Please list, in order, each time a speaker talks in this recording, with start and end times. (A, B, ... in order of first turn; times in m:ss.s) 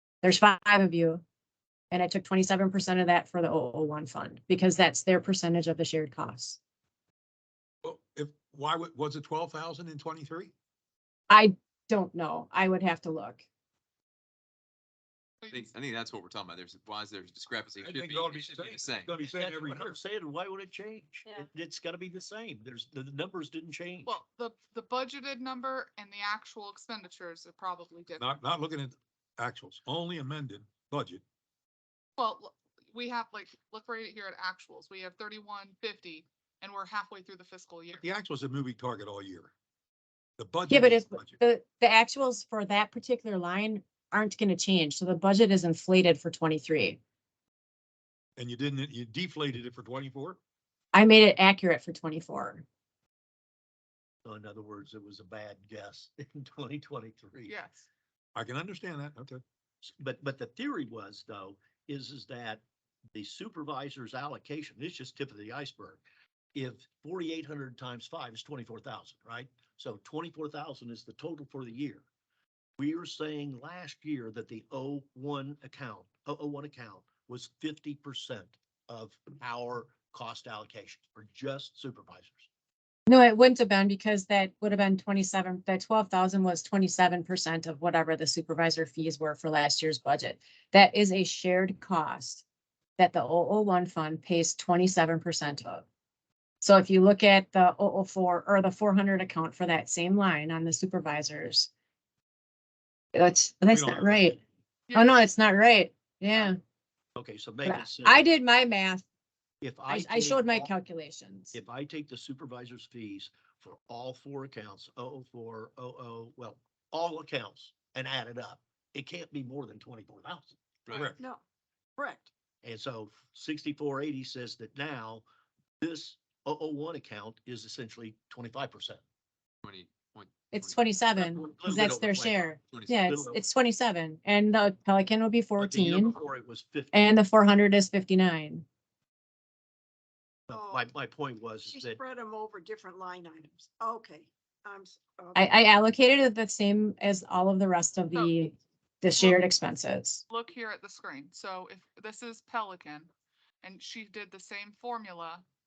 0:00.2-0:01.2 A
0:01.9-0:06.6 A
0:07.8-0:10.5 B
0:11.3-0:13.4 A
0:15.4-0:15.7 C
0:15.5-0:19.1 D
0:17.8-0:20.0 B
0:19.2-0:24.2 E
0:24.0-0:28.2 C
0:28.2-0:31.2 B
0:32.2-0:38.0 C
0:38.0-0:39.5 B
0:40.4-0:41.4 B
0:40.7-0:47.0 A
0:48.4-0:50.4 B
0:50.9-0:52.6 A
0:54.2-0:57.6 E
0:57.5-0:57.9 C
0:58.4-0:59.4 B
0:59.8-1:02.6 E
1:03.2-1:06.0 E
1:06.6-1:12.0 E
1:12.8-1:22.5 E
1:23.1-1:32.4 A
1:33.0-1:35.8 A
1:36.6-1:41.7 A
1:43.2-1:44.4 A
1:43.8-1:44.3 E
1:44.9-1:45.2 C
1:44.9-1:46.6 A
1:47.2-1:48.3 E
1:47.6-1:49.0 A
1:49.6-1:50.7 E
1:49.9-1:51.5 A
1:51.5-2:01.0 E
2:00.9-2:01.2 B
2:02.0-2:02.3 F
2:02.6-2:05.2 E
2:05.8-2:09.0 E
2:09.6-2:10.8 D
2:10.5-2:16.1 A
2:11.2-2:13.4 E
2:15.6-2:17.2 E
2:16.9-2:18.6 A
2:20.5-2:22.0 E
2:20.5-2:20.9 F
2:21.7-2:25.5 F
2:25.4-2:30.2 A
2:29.2-2:29.4 C
2:30.3-2:33.1 C
2:33.6-2:35.4 C